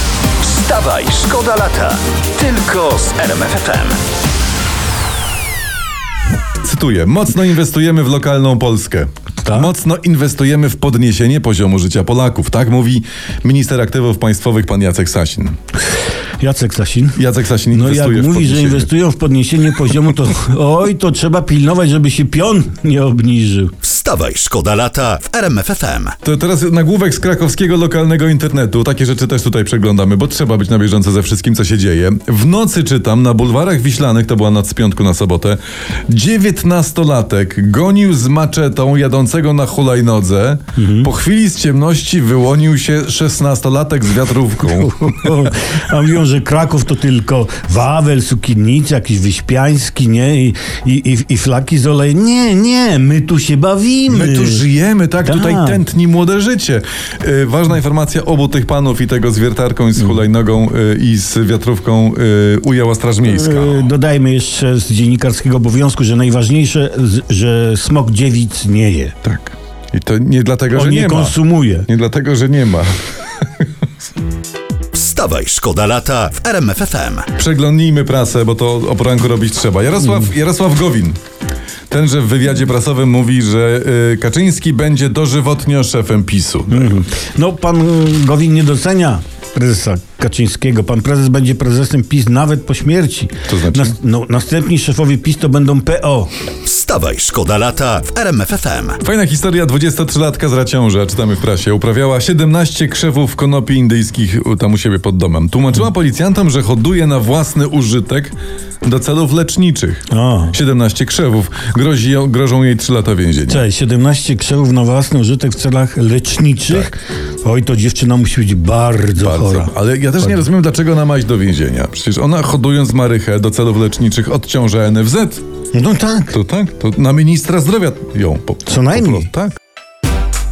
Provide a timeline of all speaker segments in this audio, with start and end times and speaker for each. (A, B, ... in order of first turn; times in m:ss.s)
0:00.4-0:04.0 A
0:06.6-0:15.6 B
0:09.4-0:09.7 C
0:16.4-0:23.7 C
0:17.2-0:18.9 B
0:23.8-0:26.1 A
0:26.2-0:45.5 B
0:40.8-0:41.1 C
0:44.6-0:54.7 C
0:54.1-1:03.9 B
0:55.2-0:55.8 C
1:03.2-1:09.1 C
1:09.2-1:13.0 B
1:10.7-1:11.9 C
1:14.9-1:17.3 A
1:17.3-1:21.2 B
1:21.9-1:27.0 B
1:26.7-1:36.3 C
1:33.5-1:33.9 B
1:36.6-1:39.0 A
1:39.0-1:48.3 B
1:48.8-1:53.6 B
1:50.1-1:50.5 C
1:53.5-1:59.7 C
1:59.2-2:05.4 B
2:05.7-2:06.3 C
2:06.3-2:09.6 B
2:08.7-2:09.3 C